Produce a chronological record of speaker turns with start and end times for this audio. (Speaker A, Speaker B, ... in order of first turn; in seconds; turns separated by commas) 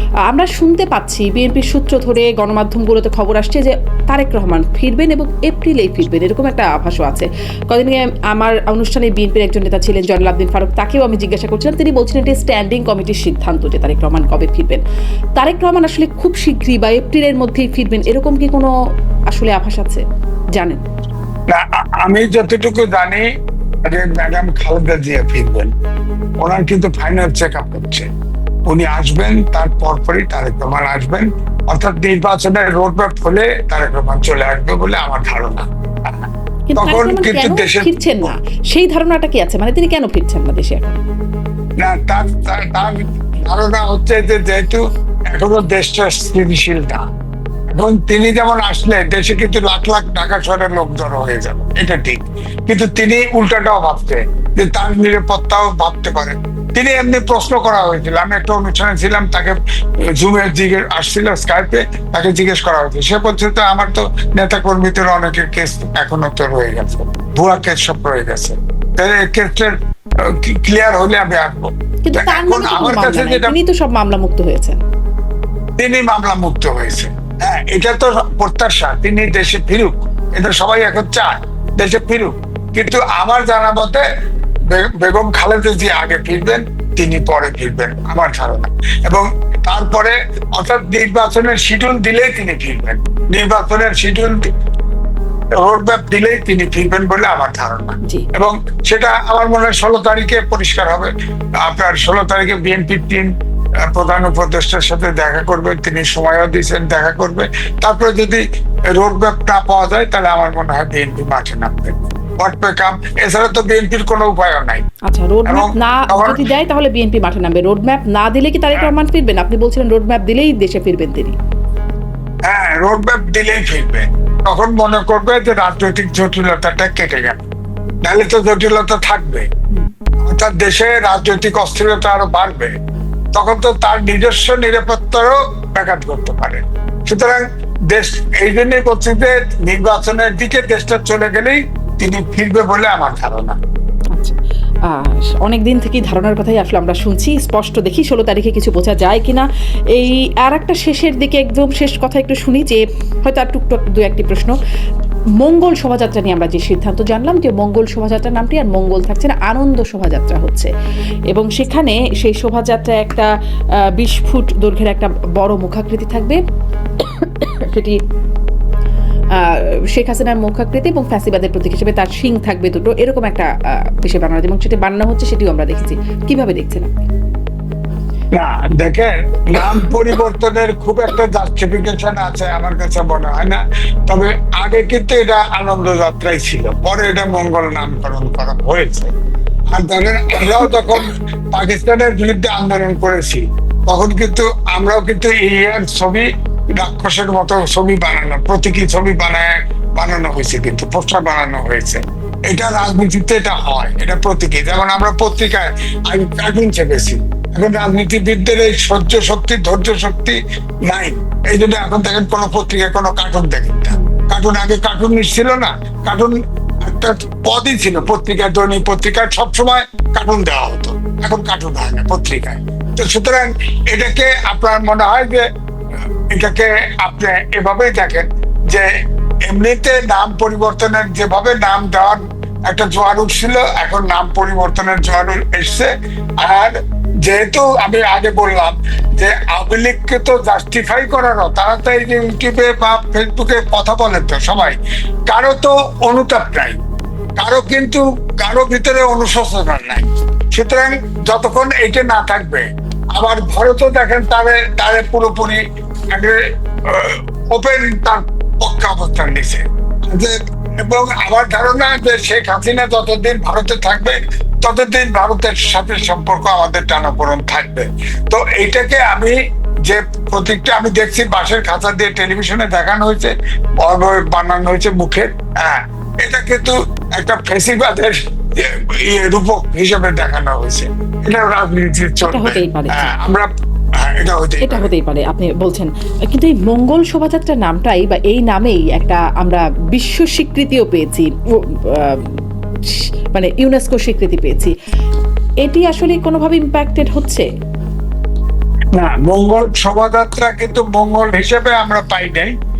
Speaker A: 0.3-14.8, Speaker A: 15.4-18.7, Speaker A: 19.3-20.0, Speaker A: 20.6-20.8, Speaker B: 21.5-23.2, Speaker B: 23.9-25.7, Speaker B: 26.4-28.1, Speaker B: 28.7-38.3, Speaker A: 36.7-41.0, Speaker B: 41.8-44.8, Speaker B: 45.3-47.0, Speaker B: 47.7-59.6, Speaker B: 60.1-73.5, Speaker A: 72.0-74.8, Speaker B: 75.8-84.0, Speaker B: 84.7-94.5, Speaker B: 95.6-101.1, Speaker B: 101.6-103.3, Speaker B: 103.8-114.8, Speaker A: 115.1-121.3, Speaker B: 115.5-116.5, Speaker B: 122.5-127.4, Speaker B: 128.0-129.5, Speaker B: 130.2-132.7, Speaker B: 133.3-143.6, Speaker A: 144.1-154.5, Speaker A: 155.4-160.7, Speaker A: 161.3-163.3, Speaker A: 163.9-166.4, Speaker A: 167.0-168.0, Speaker A: 169.3-177.0, Speaker B: 178.3-189.1, Speaker B: 189.7-225.5, Speaker B: 226.3-228.9, Speaker B: 229.5-235.9, Speaker B: 236.4-246.8, Speaker B: 247.4-255.6, Speaker B: 256.1-284.9, Speaker A: 282.2-283.1, Speaker A: 284.6-294.7, Speaker A: 295.6-297.5, Speaker B: 298.9-302.5